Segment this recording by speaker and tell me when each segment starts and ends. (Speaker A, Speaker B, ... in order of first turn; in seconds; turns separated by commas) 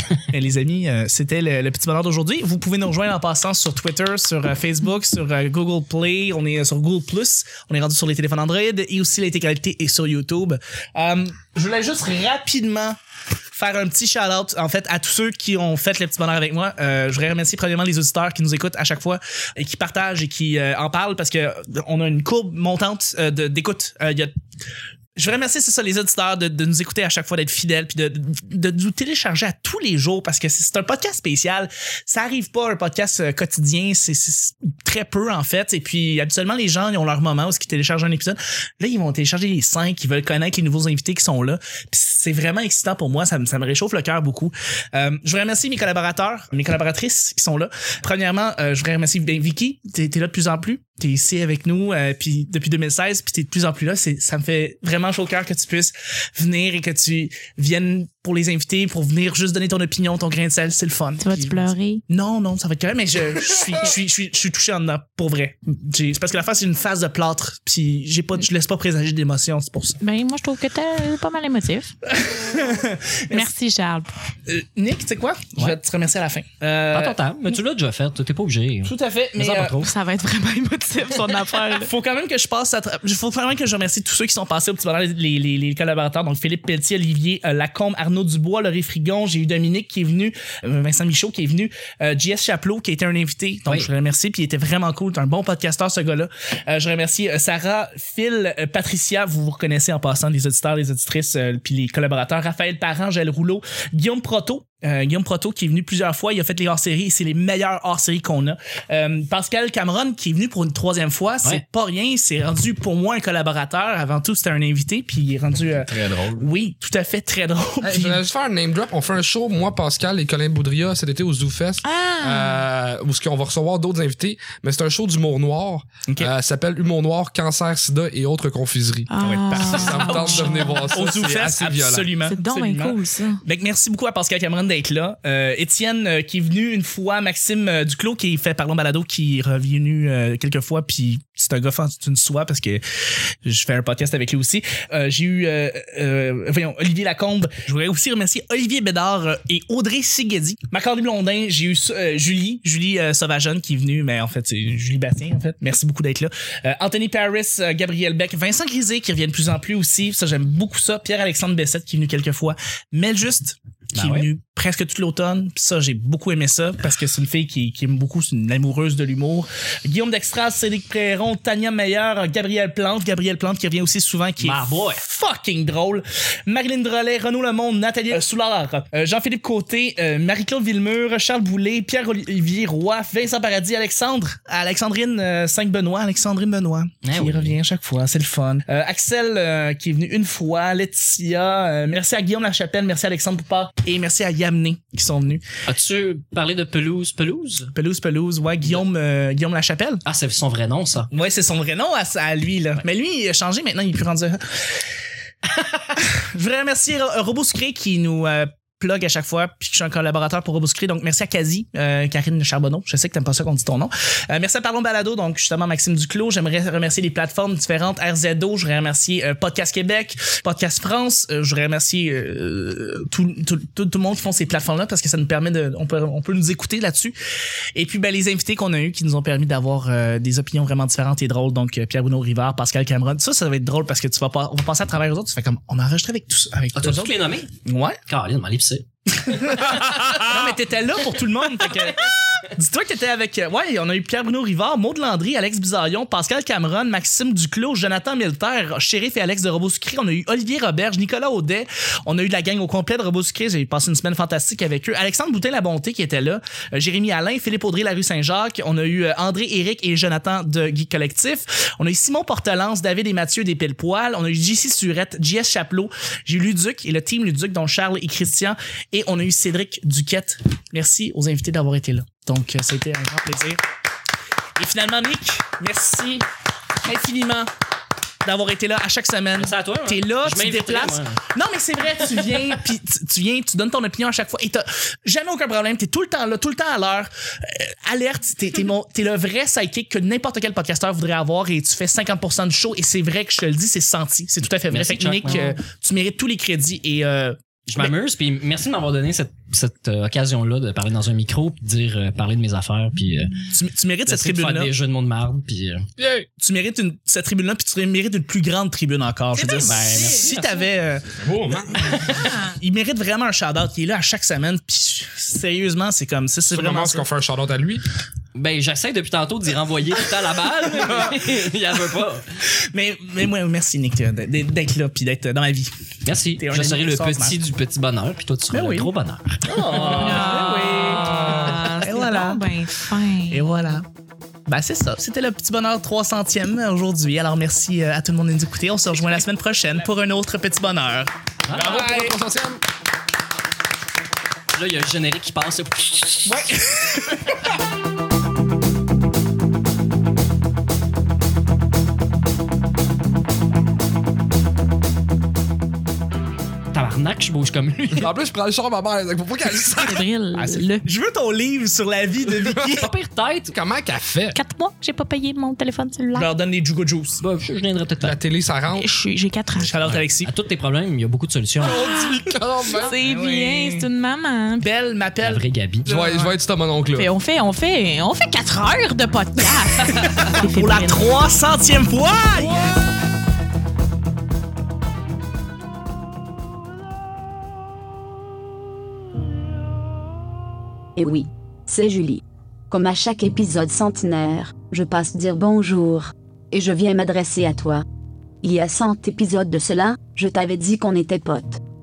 Speaker A: 0.3-13.0, Speaker A: 13.5-24.3, Speaker A: 25.1-70.0, Speaker B: 61.2-62.0, Speaker B: 70.0-71.9, Speaker A: 72.1-73.5, Speaker B: 73.3-74.1, Speaker A: 74.5-77.6, Speaker C: 76.9-79.9, Speaker A: 78.8-79.8, Speaker B: 79.8-81.9, Speaker A: 81.8-118.2, Speaker D: 115.9-116.4, Speaker D: 117.8-132.1, Speaker B: 121.8-122.6, Speaker B: 129.1-130.9, Speaker A: 129.2-142.8, Speaker B: 132.3-133.4, Speaker A: 143.4-195.5, Speaker C: 163.9-164.3, Speaker C: 174.4-175.0, Speaker C: 187.0-187.6, Speaker C: 195.7-197.7, Speaker A: 197.7-200.0, Speaker C: 200.1-201.1, Speaker A: 201.1-204.4, Speaker A: 205.9-227.2, Speaker A: 227.7-238.0, Speaker C: 236.8-237.5, Speaker C: 238.1-239.7, Speaker A: 239.2-273.6, Speaker D: 239.9-240.2, Speaker A: 274.6-276.2, Speaker A: 276.8-277.5, Speaker A: 278.2-297.9, Speaker C: 279.4-281.2, Speaker C: 294.7-295.6, Speaker C: 297.7-303.5, Speaker A: 303.5-304.7, Speaker C: 304.1-305.9, Speaker D: 306.0-306.3, Speaker A: 306.4-311.2, Speaker B: 309.3-310.6, Speaker C: 309.6-310.6, Speaker D: 311.2-312.1, Speaker A: 311.8-317.1, Speaker C: 312.0-312.3, Speaker D: 316.5-317.8, Speaker C: 318.3-322.3, Speaker A: 322.6-325.7, Speaker C: 326.1-330.3, Speaker A: 326.4-327.4, Speaker A: 328.5-328.9, Speaker A: 329.4-332.4, Speaker B: 329.7-333.4, Speaker A: 333.3-333.9, Speaker A: 334.4-342.1, Speaker C: 341.4-341.8, Speaker D: 341.5-342.6, Speaker C: 344.5-346.5, Speaker A: 346.3-347.3, Speaker C: 356.7-358.1, Speaker D: 357.9-360.1, Speaker B: 359.8-360.8, Speaker A: 360.4-362.9, Speaker D: 362.3-362.9, Speaker C: 362.8-363.5, Speaker D: 363.5-364.4, Speaker B: 364.3-366.3, Speaker A: 366.1-367.2, Speaker C: 367.2-368.2, Speaker D: 368.0-368.9, Speaker B: 368.7-369.7, Speaker A: 369.6-370.3, Speaker C: 369.7-371.8, Speaker D: 371.6-372.9, Speaker B: 371.6-372.2, Speaker B: 372.7-374.7, Speaker A: 372.9-373.9, Speaker A: 374.6-376.4, Speaker C: 375.2-375.9, Speaker D: 375.9-377.1, Speaker B: 376.9-381.1, Speaker A: 379.8-382.6, Speaker D: 382.4-382.7, Speaker E: 390.9-397.8, Speaker E: 398.4-401.6